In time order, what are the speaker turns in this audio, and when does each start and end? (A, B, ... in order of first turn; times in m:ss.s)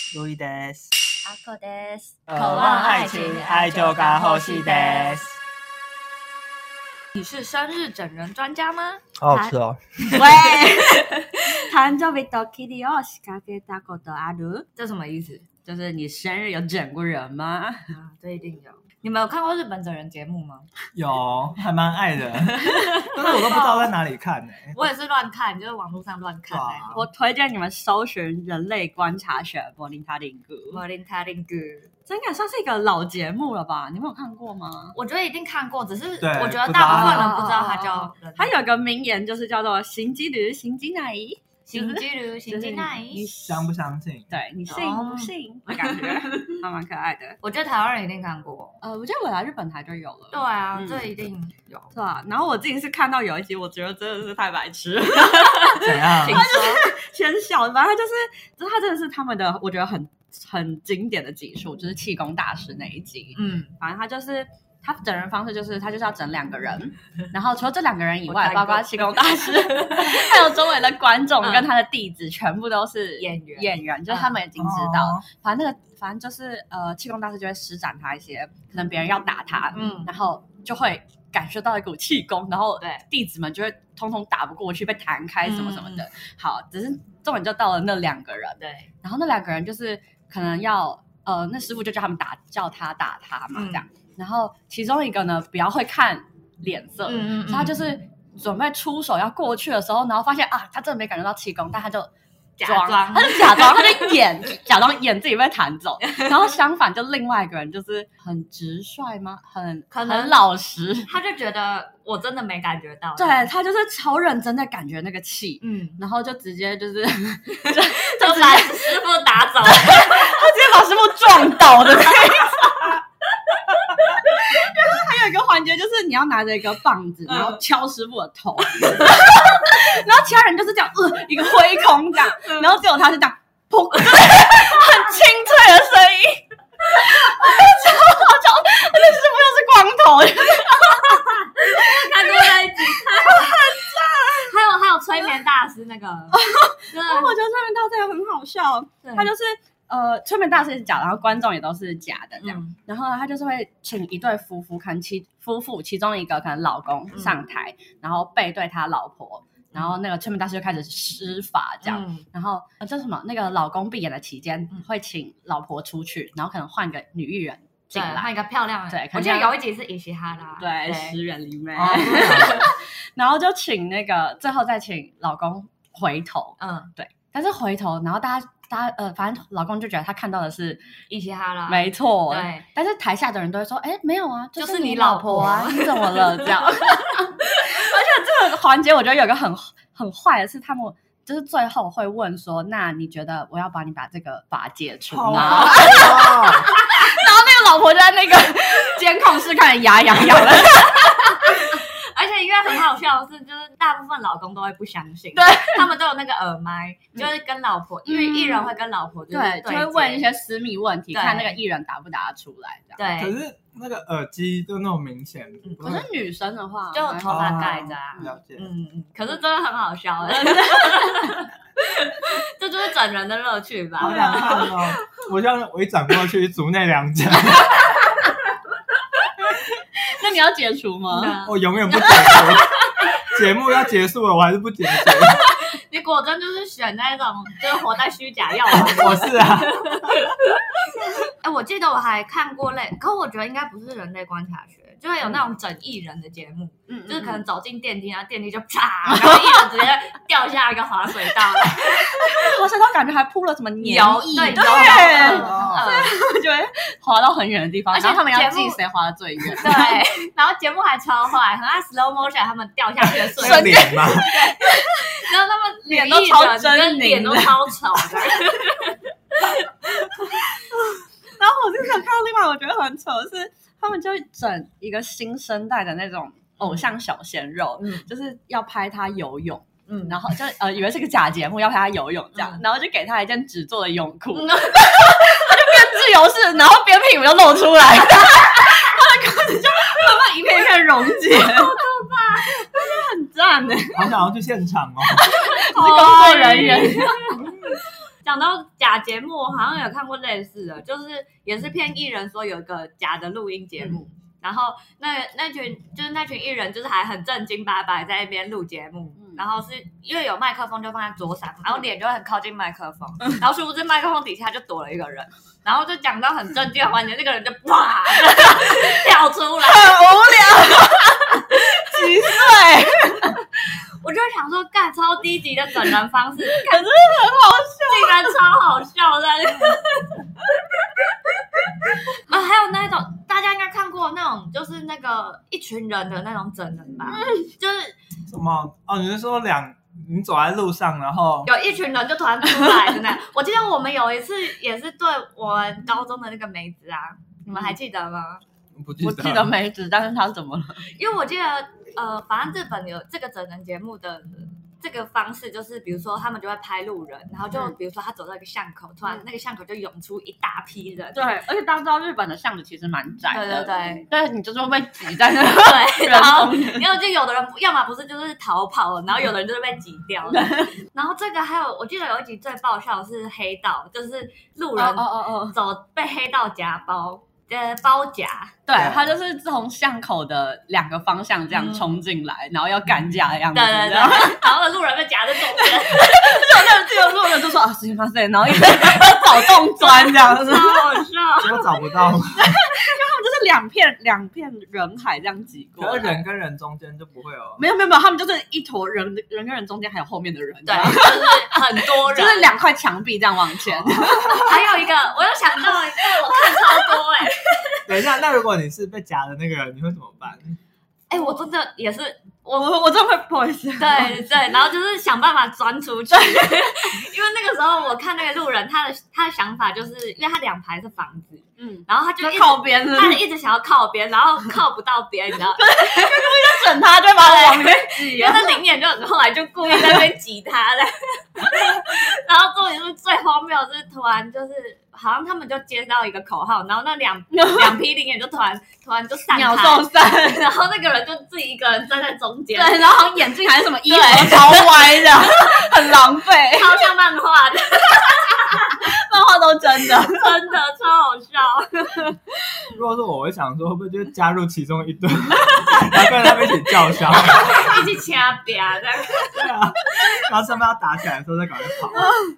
0:00.1-0:00.9 A
0:01.2-0:05.2 B
0:02.3-0:05.3 A
0:07.2-0:09.6 B
0:09.2-0:10.2 A
0:10.1-0:14.7 C
0:10.5-0:11.4 B
0:14.8-0:15.5 B
0:15.6-0:17.9 C
0:17.9-0:20.7 B
0:20.9-0:24.8 A
0:22.6-0:23.9 B
0:24.7-0:26.9 B
0:26.5-0:27.0 A
0:26.9-0:30.8 C
0:30.7-0:31.9 B
0:32.1-0:35.0 C
0:35.0-0:38.5 B
0:36.2-0:37.3 A
0:36.8-0:43.7 C
0:41.7-0:43.3 B
0:43.4-0:44.3 A
0:44.3-0:47.4 C
0:44.7-0:46.6 B
0:47.4-0:48.8 B
0:48.8-0:51.1 C
0:50.3-0:51.9 B
0:51.9-1:42.1 C
0:55.7-0:56.9 B
0:55.8-0:56.5 A
1:03.4-1:03.7 B
1:08.3-1:10.3 B
1:11.4-1:11.7 B
1:13.2-1:14.4 B
1:14.6-1:15.2 A
1:19.7-1:20.1 B
1:25.4-1:26.1 B
1:28.6-1:28.9 B
1:33.5-1:33.8 B
1:37.1-1:37.8 B
1:42.6-1:44.2 B
1:42.6-1:51.1 C
1:46.0-1:46.5 B
1:49.9-1:50.4 B
1:51.1-1:53.5 B
1:53.2-1:59.0 C
1:55.6-1:56.0 B
1:57.6-2:00.5 B
1:59.7-2:03.0 C
2:04.2-2:24.6 C
2:07.3-2:07.6 B
2:21.0-2:23.6 B
2:24.4-2:27.3 B
2:26.3-2:48.3 C
2:29.0-2:29.3 B
2:32.4-2:32.7 B
2:37.1-2:37.4 B
2:41.8-2:42.2 B
2:47.9-2:51.2 B
2:48.9-2:49.6 C
2:50.6-3:00.8 C
2:51.8-2:52.7 A
2:52.1-2:52.5 B
2:56.6-2:56.9 B
3:01.1-3:02.7 B
3:01.7-3:21.6 C
3:04.6-3:07.2 B
3:15.1-3:16.7 A
3:15.4-3:16.2 B
3:20.4-3:30.3 B
3:25.4-3:25.9 C
3:28.1-3:28.7 C
3:29.3-3:33.0 C
3:31.1-3:31.6 B
3:33.0-3:33.4 B
3:33.2-3:36.0 A
3:35.6-3:36.0 B
3:35.8-3:38.3 C
3:36.9-3:45.2 B
3:37.3-3:38.7 A
3:40.4-3:41.3 C
3:44.0-3:47.9 A
3:44.1-3:44.7 C
3:49.9-3:51.4 C
3:51.1-3:53.1 B
3:51.4-3:55.4 A
3:55.1-4:00.3 B
3:58.7-4:00.2 A
4:01.4-4:12.6 B
4:06.9-4:07.4 C
4:09.1-4:09.6 C
4:11.7-4:20.0 C
4:13.8-4:16.1 B
4:15.2-4:15.9 A
4:17.9-4:18.8 B
4:19.5-4:29.5 B
4:23.0-4:24.4 A
4:23.4-4:25.2 C
4:25.8-4:28.4 C
4:30.0-4:30.6 C
4:31.4-4:51.8 C
4:36.6-4:36.9 B
4:37.8-4:38.1 B
4:39.9-4:40.2 B
4:42.4-4:42.6 B
4:44.3-4:45.6 B
4:51.3-4:52.7 B
4:52.4-4:54.1 C
4:53.9-4:55.4 A
4:55.2-4:57.8 C
4:55.5-4:57.6 B
4:58.2-5:20.0 B
5:03.8-5:04.1 C
5:09.2-5:09.4 C
5:19.6-5:23.4 C
5:22.0-5:22.4 B
5:24.0-5:26.9 B
5:26.4-5:28.4 C
5:27.9-5:30.2 B
5:32.2-5:38.0 B
5:37.1-5:37.5 C
5:38.3-5:41.5 A
5:41.5-5:48.4 B
5:48.8-5:49.5 A
5:49.0-5:50.9 C
5:50.9-6:01.2 B
6:01.1-6:06.9 C
6:03.3-6:04.1 B
6:05.6-6:18.6 B
6:10.3-6:10.8 C
6:14.8-6:15.6 C
6:18.7-6:24.5 C
6:18.7-6:19.1 A
6:21.5-6:22.0 B
6:23.5-6:26.3 B
6:25.6-6:31.0 C
6:29.8-6:31.7 B
6:31.4-6:32.4 A
6:32.4-6:36.2 C
6:35.8-6:37.6 A
6:37.6-6:44.6 C
6:40.6-6:42.5 B
6:43.9-6:44.2 A
6:44.2-6:48.0 B
6:45.7-6:47.3 C
6:47.9-6:50.6 A
6:51.1-6:52.7 B
6:52.5-6:54.2 C
6:53.8-7:22.9 B
6:56.1-6:56.7 C
7:01.6-7:03.2 C
7:05.5-7:08.6 C
7:09.8-7:10.0 C
7:17.3-7:17.8 C
7:19.3-7:20.4 C
7:22.5-7:26.8 C
7:23.9-7:25.7 B
7:26.5-7:28.8 B
7:28.3-7:30.3 C
7:30.0-7:32.2 B
7:32.8-7:38.0 A
7:37.0-7:39.6 B
7:39.2-7:42.1 A